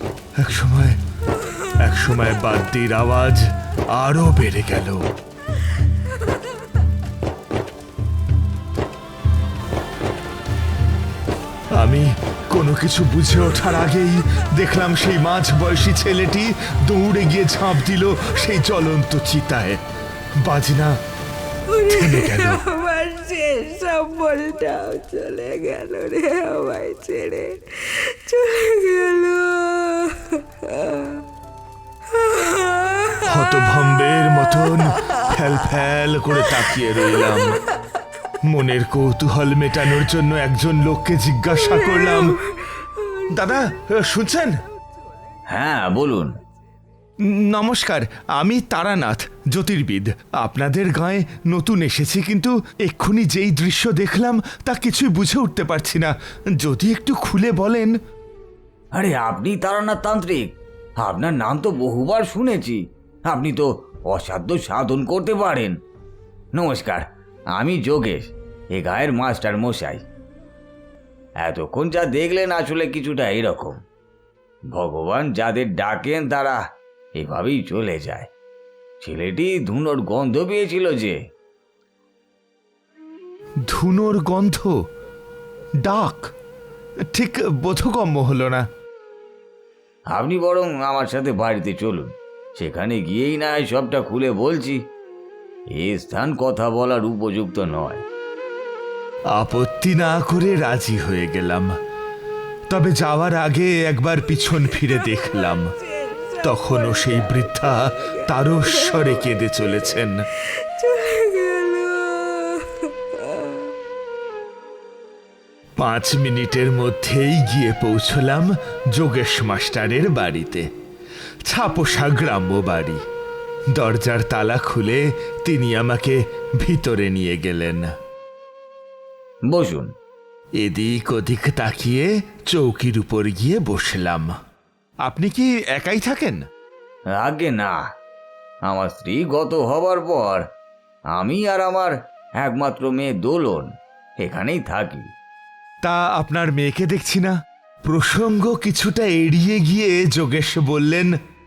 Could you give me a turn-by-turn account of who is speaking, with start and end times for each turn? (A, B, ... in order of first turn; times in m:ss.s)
0:00.4-0:01.0 A
0:01.8-0:03.4 A
0:04.0-0:05.0 A
0:11.8-0:19.8 A
0:20.4-0:21.0 A
0:21.7-0:31.2 B
0:21.9-0:22.6 A
0:33.2-0:37.6 A
0:38.5-0:42.4 A
0:43.3-0:44.6 A
0:45.5-0:46.4 C
0:47.3-0:58.0 A
0:58.9-1:05.8 C
1:06.5-1:10.0 C
1:11.4-1:13.8 C
1:14.7-1:16.6 C
1:17.2-1:18.3 C
1:19.0-1:21.2 C
1:23.7-1:24.8 A
1:25.8-1:26.3 A
1:27.1-1:28.7 A
1:30.1-1:34.8 C
1:35.7-1:38.0 C
1:39.3-1:41.7 A
1:42.7-1:45.7 A
1:46.0-1:47.0 B
1:46.4-1:50.3 A
1:50.6-1:53.6 B
1:55.8-2:00.7 A
2:01.5-2:03.0 A
2:03.7-2:07.9 A
2:09.5-2:09.9 C
2:10.6-2:14.3 A
2:15.1-2:16.4 A
2:17.1-2:17.8 C
2:18.7-2:20.5 C
2:21.1-2:23.7 C
2:24.2-2:25.1 C
2:25.8-2:27.4 A
2:27.9-2:31.2 A